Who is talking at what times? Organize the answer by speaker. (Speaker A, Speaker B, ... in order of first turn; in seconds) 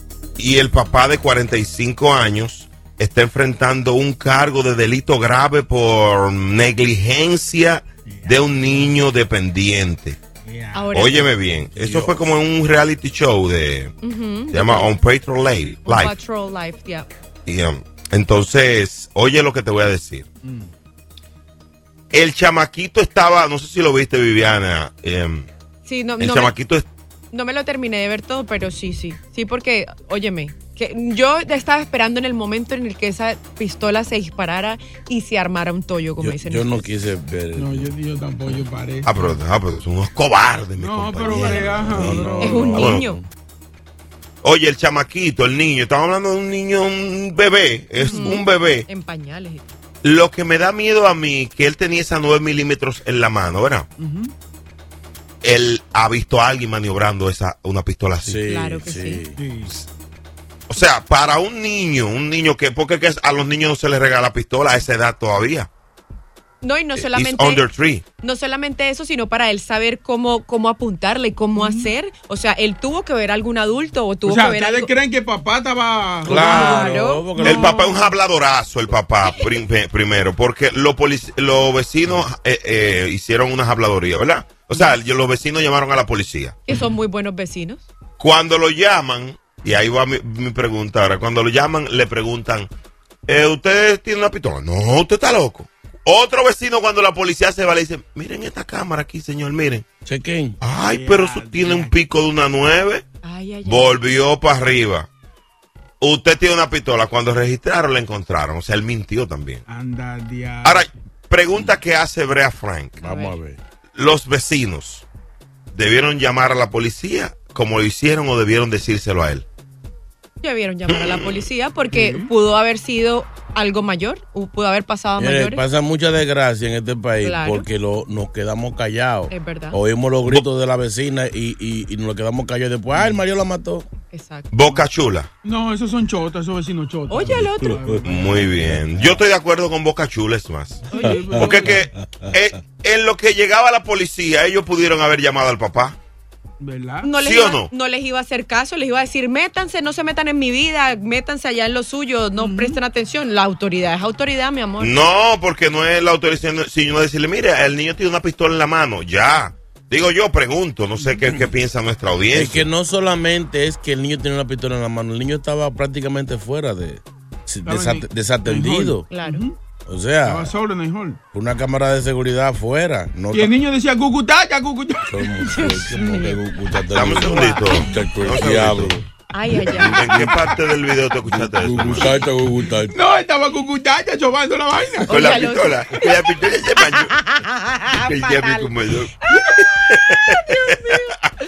Speaker A: 0.4-10.2, 10.9-13.9, 14.5-16.1, 17.5-20.3, 22.1-25.5, 26.2-26.9, 39.1-43.1, 44.4-48.9, 50.0-53.9, 55.4-58.4, 60.7-65.7, 66.9-68.0, 77.4-86.6, 88.2-92.7, 93.3-99.8, 100.6-103.0, 103.7-105.1, 106.0-109.6, 110.6-113.0, 114.0-115.0, 115.7-119.5, 120.9-121.5, 134.5-135.3, 138.1-146.0, 147.2-147.7, 154.8-162.7, 176.9-179.0, 179.8-182.2, 185.1-187.2, 187.9-189.1, 189.9-190.8
Speaker B: 8.1-8.9, 10.5-11.0, 20.4-20.7, 37.6-39.4, 40.8-42.8, 54.0-54.3, 59.4-59.7, 71.5-71.9, 74.2-78.1, 100.9-101.9, 109.7-110.9, 121.9-122.3, 135.4-138.6, 140.9-141.8, 146.6-147.1, 152.4-152.8, 167.7-169.6, 170.3-171.2, 173.3-175.3, 182.9-185.2
Speaker C: 10.7-11.3, 14.0-14.9, 15.8-17.1, 25.9-26.6, 27.3-36.9, 41.3-41.8, 42.4-43.2, 48.0-49.8, 58.4-59.2, 66.6-67.7, 68.2-74.9, 76.2-77.5, 86.7-87.9, 103.2-104.1, 113.0-113.4, 120.4-125.6, 127.2-127.7, 129.3-129.8, 134.1-134.5, 137.1-137.9, 140.9-141.4, 147.0-155.1, 169.1-169.4, 175.4-176.4, 177.2-177.8, 179.3-180.1, 185.1-186.3, 186.8-189.6, 190.8-191.0
Speaker D: 11.8-12.2, 36.2-37.9, 41.3-43.2, 58.2-59.4, 76.2-77.7, 100.0-100.6, 113.0-113.6, 125.2-133.9, 137.4-138.0, 138.6-139.2, 141.0-142.4, 162.3-169.1, 169.9-170.5, 171.3-173.6, 175.1-179.1, 179.7-180.4, 181.2-182.9